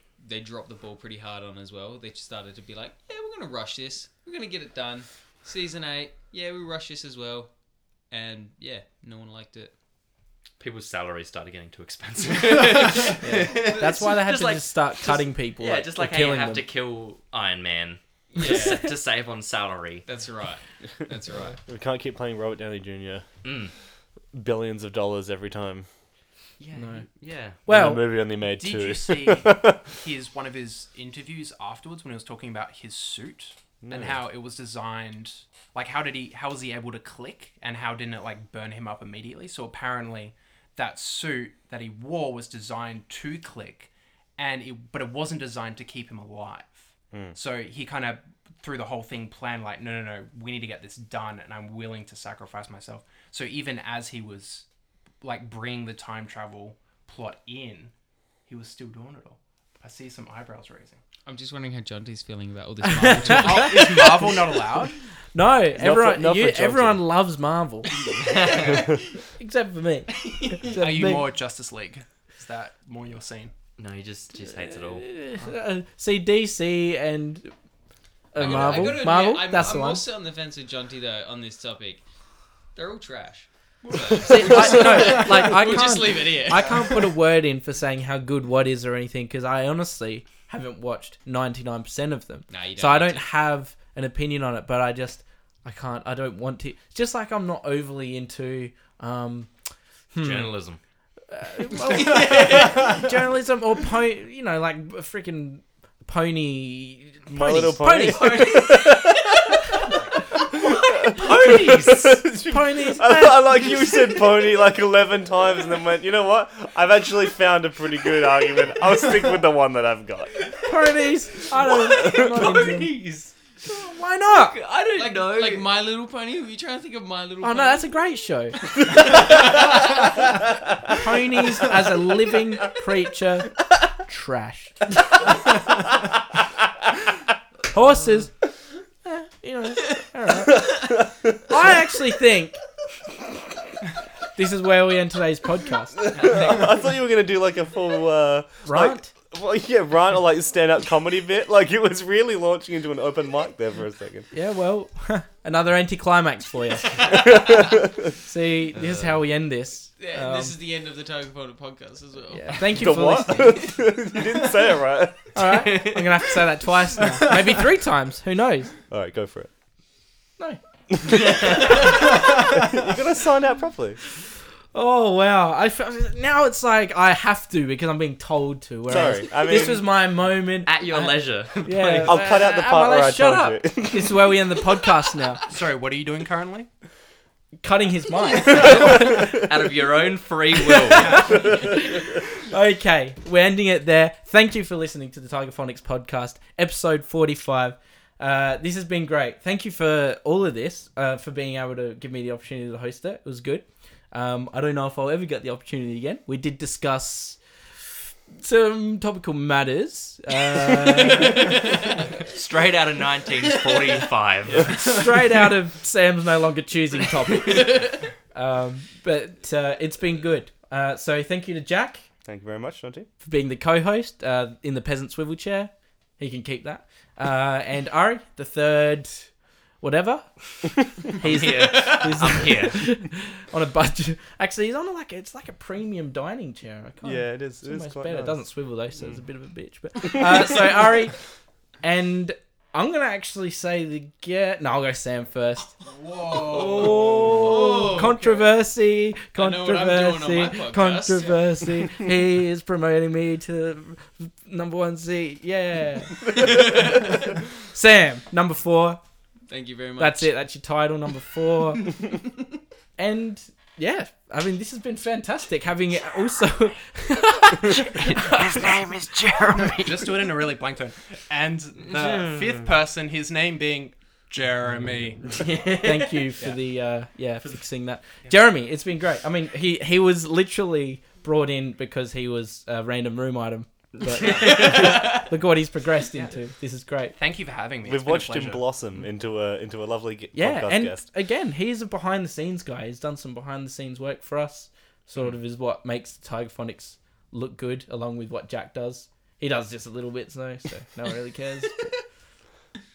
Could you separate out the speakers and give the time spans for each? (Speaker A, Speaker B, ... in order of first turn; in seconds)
Speaker A: 0.2-7.5, 8.1-9.7, 13.5-13.9, 18.3-18.9, 20.1-21.6, 61.3-64.5, 68.7-68.9, 70.2-70.8, 78.4-82.0, 82.7-87.1, 92.5-93.3, 101.9-103.0, 108.1-109.9, 125.0-127.9, 129.1-129.4, 146.2-146.5, 160.0-164.4, 211.3-212.0, 217.4-218.1, 231.6-232.1, 245.9-248.5, 249.3-251.8, 256.5-257.0, 259.5-260.3, 284.7-285.2
Speaker B: 10.6-20.1, 23.4-23.7, 26.6-27.6, 68.2-69.0, 73.8-75.1, 100.2-100.8, 121.7-123.3, 124.3-125.7, 158.7-159.2, 165.6-166.2, 171.1-172.1, 180.7-182.4, 188.5-191.6, 212.2-214.8, 231.2-232.8, 246.8-247.4, 267.7-270.1, 271.9-272.7, 275.4-276.2, 284.2-285.2
Speaker C: 13.2-16.6, 18.4-18.8, 26.7-27.1, 27.6-28.1, 62.8-64.2, 65.3-67.9, 69.2-71.3, 74.6-77.5, 78.3-80.0, 84.2-99.5, 100.1-100.5, 101.3-108.5, 111.1-114.1, 120.6-122.9, 123.7-124.6, 127.4-128.7, 130.9-134.8, 137.7-138.3, 139.0-142.6, 144.3-146.0, 148.6-149.1, 154.3-160.6, 162.3-163.6, 165.3-168.7, 174.7-185.4, 187.6-189.4, 190.7-207.4, 208.3-211.5, 214.6-222.1, 223.2-241.2, 241.8-245.8, 246.5-259.0, 260.0-262.1, 263.0-268.7, 275.8-287.1, 290.3-301.9
Speaker D: 21.7-23.3, 24.3-25.9, 27.7-29.9, 33.8-34.2, 65.7-67.0, 78.5-79.0, 84.2-85.0, 107.3-109.2, 110.4-120.6, 121.8-122.6, 140.5-141.6, 146.0-154.3, 157.1-157.8, 162.8-165.4, 168.9-169.5, 171.0-174.0, 178.9-179.8, 182.0-184.3, 222.2-223.1, 237.0-238.4, 287.9-291.0
Speaker E: 28.4-54.6, 55.2-57.9, 58.5-61.0, 63.1-65.0, 68.5-68.8, 70.8-73.5, 83.9-84.5, 185.5-186.7, 269.8-275.6, 287.2-288.7